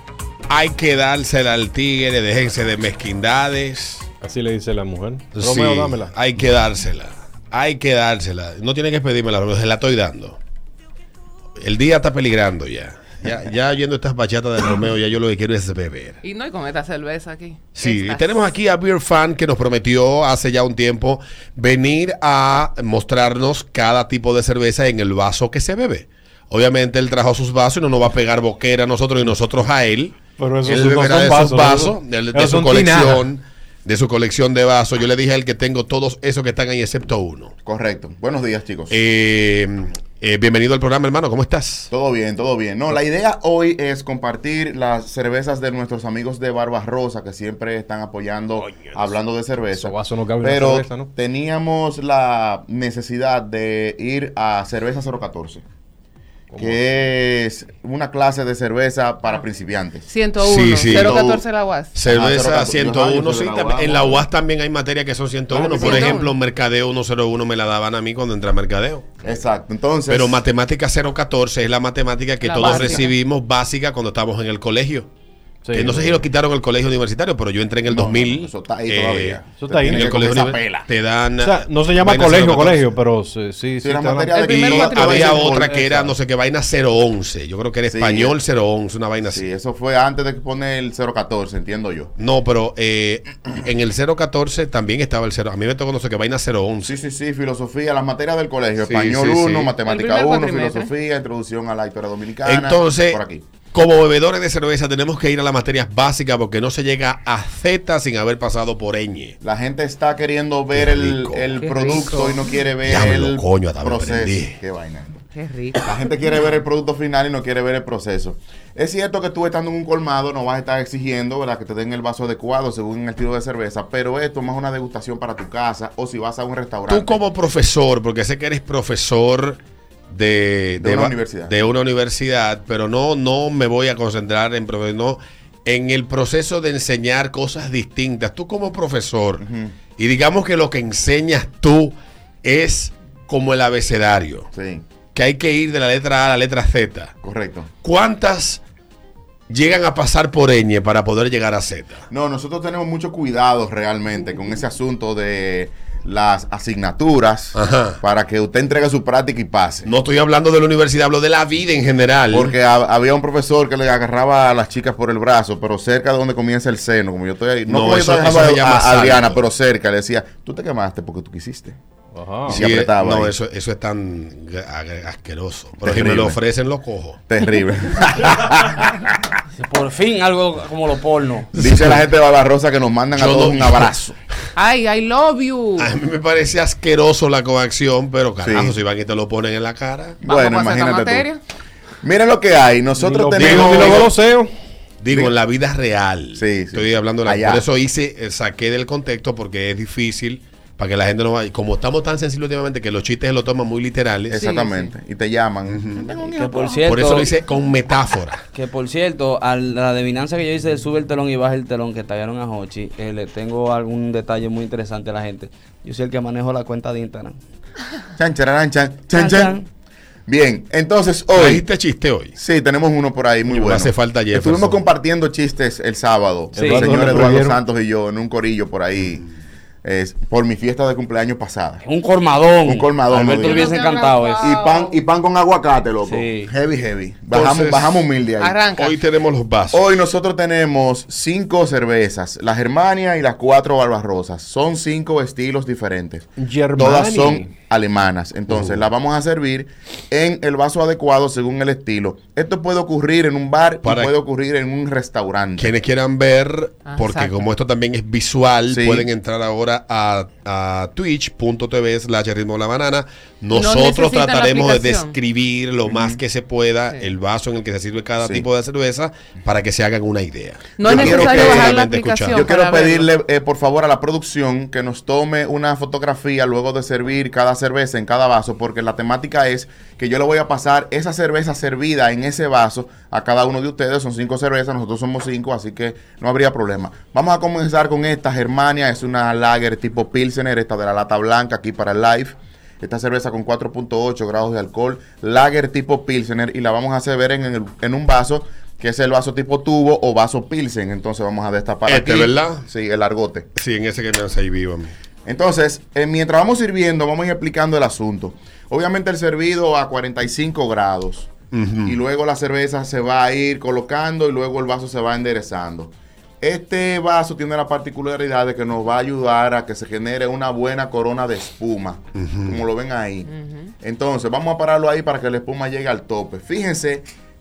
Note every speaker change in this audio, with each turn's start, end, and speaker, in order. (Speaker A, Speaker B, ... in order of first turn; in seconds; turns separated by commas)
Speaker A: 0.5-4.1, Speaker B: 4.2-6.1, Speaker A: 5.3-10.4, Speaker A: 11.6-16.2, Speaker C: 16.2-18.4, Speaker A: 17.8-37.5, Speaker B: 30.4-33.3, Speaker D: 37.7-39.0, Speaker A: 38.9-41.9, Speaker D: 41.9-55.6, Speaker B: 49.8-51.1, Speaker B: 56.5-56.8, Speaker D: 56.6-60.1, Speaker C: 60.1-62.0, Speaker A: 60.4-61.2, Speaker D: 60.9-61.4, Speaker A: 62.0-69.1, Speaker D: 62.0-64.3, Speaker C: 65.5-66.3, Speaker D: 65.8-66.1, Speaker D: 69.2-70.4, Speaker A: 70.1-75.1, Speaker C: 72.4-73.1, Speaker D: 72.6-73.0, Speaker B: 75.6-76.2, Speaker A: 75.7-82.9, Speaker D: 77.8-80.9, Speaker B: 79.6-80.1, Speaker B: 81.4-84.4, Speaker D: 83.8-85.8, Speaker C: 84.3-85.6, Speaker A: 84.5-89.5, Speaker B: 85.7-86.1, Speaker D: 87.9-88.3, Speaker D: 89.3-92.1, Speaker A: 92.2-96.9, Speaker D: 96.8-103.5, Speaker A: 98.8-99.7, Speaker C: 99.8-100.9, Speaker A: 102.4-103.2, Speaker A: 103.7-109.4, Speaker D: 109.4-115.2, Speaker A: 110.8-111.6, Speaker C: 111.6-112.5, Speaker A: 112.8-114.6, Speaker C: 115.3-115.8, Speaker D: 115.8-127.2, Speaker A: 126.9-129.6, Speaker A: 130.1-144.5, Speaker D: 130.8-131.5, Speaker D: 139.4-139.7, Speaker D: 144.5-144.8, Speaker A: 145.1-147.1, Speaker D: 147.2-147.7, Speaker A: 147.8-148.6, Speaker A: 149.5-152.1, Speaker D: 152.1-159.9, Speaker A: 157.6-158.0, Speaker A: 159.9-162.5, Speaker D: 162.3-171.8, Speaker A: 167.7-169.4, Speaker B: 172.2-172.6, Speaker D: 172.5-173.3, Speaker A: 172.5-177.2, Speaker D: 175.8-176.4, Speaker D: 177.3-179.4, Speaker E: 179.6-181.5, Speaker D: 181.6-184.2, Speaker A: 181.6-181.9, Speaker A: 183.2-183.9, Speaker C: 184.6-185.9, Speaker A: 185.8-190.2, Speaker D: 188.4-188.8, Speaker D: 190.2-191.3, Speaker C: 190.2-191.4, Speaker D: 192.0-194.1, Speaker B: 193.0-194.5, Speaker A: 193.3-194.1, Speaker A: 195.0-204.5, Speaker D: 196.4-197.7, Speaker D: 204.3-207.0, Speaker C: 204.3-204.9, Speaker A: 205.7-206.1, Speaker E: 206.3-207.3, Speaker A: 206.8-208.4, Speaker E: 208.5-217.4, Speaker D: 218.2-219.6, Speaker E: 219.2-219.7, Speaker D: 220.3-221.7, Speaker A: 221.3-222.4, Speaker D: 222.4-229.3, Speaker A: 223.5-224.8, Speaker B: 226.5-227.6, Speaker E: 226.6-227.1, Speaker D: 229.8-231.8, Speaker E: 231.8-234.6, Speaker D: 232.6-233.8, Speaker C: 233.3-235.0, Speaker D: 234.4-238.6, Speaker E: 236.0-236.5, Speaker A: 237.3-238.1, Speaker C: 238.4-239.0, Speaker A: 238.8-239.8, Speaker D: 239.7-255.7, Speaker B: 246.4-247.5, Speaker A: 253.8-254.1, Speaker A: 255.6-272.5, Speaker C: 256.9-257.4, Speaker D: 258.7-259.1, Speaker C: 263.5-265.1, Speaker D: 265.9-266.2, Speaker D: 268.2-268.5, Speaker C: 270.8-273.1, Speaker D: 270.8-271.8, Speaker D: 272.3-303.5, Speaker A: 301.9-302.7, Speaker A: 303.6-304.9, Speaker D: 305.2-311.3, Speaker A: 311.5-312.0, Speaker D: 311.8-327.1, Speaker A: 322.1-322.6